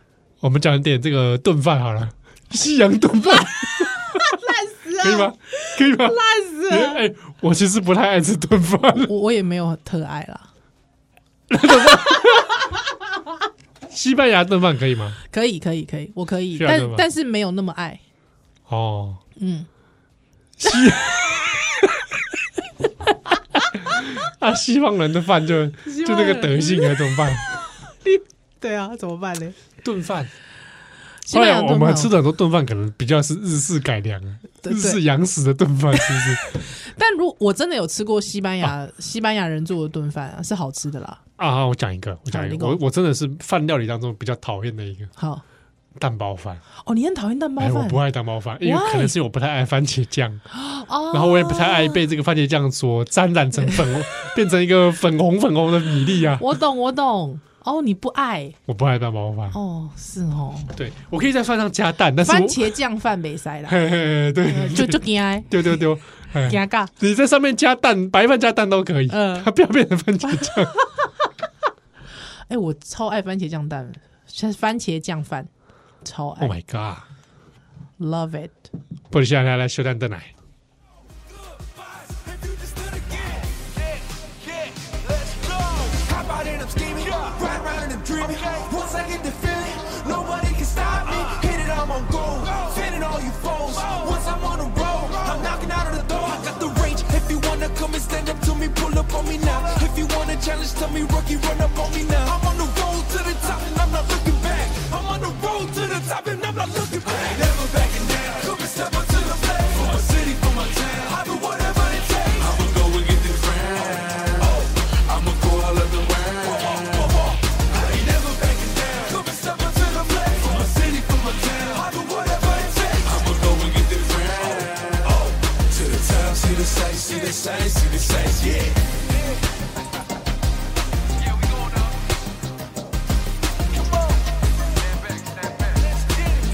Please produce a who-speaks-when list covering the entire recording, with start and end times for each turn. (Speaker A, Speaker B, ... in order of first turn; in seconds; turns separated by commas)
Speaker A: 0.4-4.2, Speaker B: 3.8-7.0, Speaker A: 5.0-9.1, Speaker B: 9.0-10.5, Speaker A: 11.5-12.6, Speaker B: 11.8-12.3, Speaker A: 13.9-15.2, Speaker B: 15.3-18.0, Speaker A: 16.6-17.1, Speaker A: 18.7-19.2, Speaker B: 19.4-19.7, Speaker A: 20.6-21.8, Speaker B: 20.8-21.4, Speaker A: 23.7-27.5, Speaker B: 25.9-29.6, Speaker A: 29.8-30.3, Speaker B: 31.2-32.1, Speaker A: 31.3-36.4, Speaker B: 34.6-35.0, Speaker B: 35.9-41.2, Speaker A: 41.4-45.1, Speaker B: 42.3-42.8, Speaker B: 45.2-45.4, Speaker A: 46.0-46.6, Speaker B: 46.8-48.0, Speaker A: 47.6-50.4, Speaker B: 48.6-49.1, Speaker B: 50.5-52.0, Speaker A: 51.1-56.5, Speaker B: 56.4-58.6, Speaker A: 58.7-59.6, Speaker B: 59.5-60.7, Speaker A: 60.8-62.7, Speaker B: 62.2-63.8, Speaker A: 63.7-70.7, Speaker B: 64.4-65.8, Speaker B: 66.4-66.9, Speaker B: 69.1-69.5, Speaker B: 70.2-71.0, Speaker B: 72.5-75.5, Speaker B: 76.0-76.5, Speaker A: 76.4-77.1, Speaker B: 78.0-78.7, Speaker A: 79.1-80.3, Speaker C: 81.8-83.7, Speaker C: 84.4-128.8, Speaker C: 131.4-131.9, Speaker C: 135.1-136.1